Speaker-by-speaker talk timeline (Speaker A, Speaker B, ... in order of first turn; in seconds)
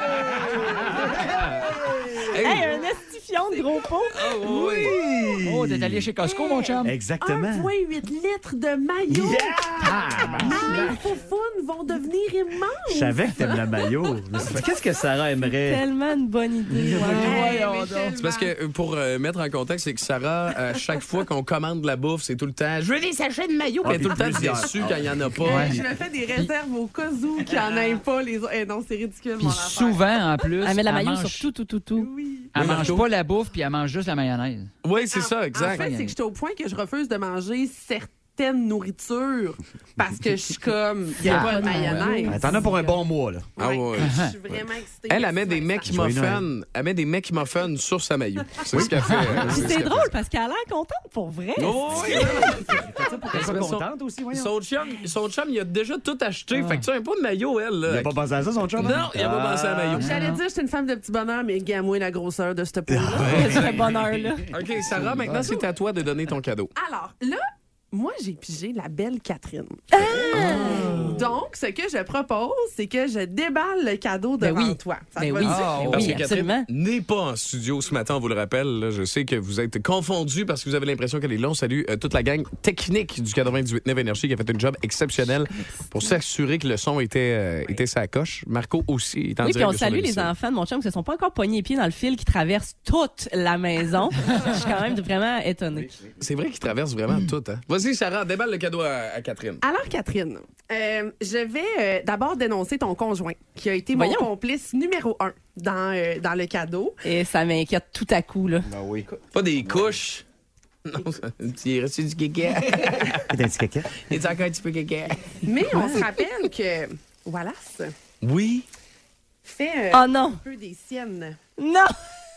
Speaker A: 0.2-2.4, 4.5-6.1, 6.8-7.7, 9.1-10.9, 12.9-15.8, 16.7-17.4, 23.8-25.4, 42.3-43.5, 45.9-46.5, 48.7-49.8, 51.9-54.5, 57.9-60.0, 62.9-64.3, 70.8-71.2, 108.7-109.1, 109.7-110.0, 113.3-113.9
Speaker B: 1.3-1.7, 2.3-2.8, 4.1-5.0, 18.2-25.8, 32.6-33.1, 34.8-35.9, 43.6-50.1, 51.6-52.8, 53.3-58.2, 58.8-60.2, 63.2-63.8, 64.5-66.7, 70.3-70.7, 75.6-90.3, 96.2-99.6, 109.3-110.2, 110.9-113.2, 114.0-115.4, 118.2-118.7
Speaker C: 2.4-4.3, 15.6-17.5, 30.6-32.1, 41.2-42.5, 49.5-52.0, 63.3-64.5, 69.9-71.0, 74.4-76.7, 89.4-96.0, 103.9-104.3, 107.0-108.7, 115.7-116.1, 119.9-120.4, 121.6-122.0
Speaker D: 5.4-6.9, 9.9-10.9, 16.9-18.2, 25.5-25.8, 29.4-31.5, 32.5-34.7, 35.6-36.1, 41.3-42.0, 44.0-44.3, 60.0-60.4, 75.4-76.3
Speaker E: 6.2-13.7, 17.1-18.5, 25.4-30.4, 32.0-32.4, 35.0-42.6, 43.6-45.9, 52.1-52.6, 60.0-63.7, 65.4-65.6, 66.8-75.9, 99.6-107.0, 115.4-117.9, 119.4-121.4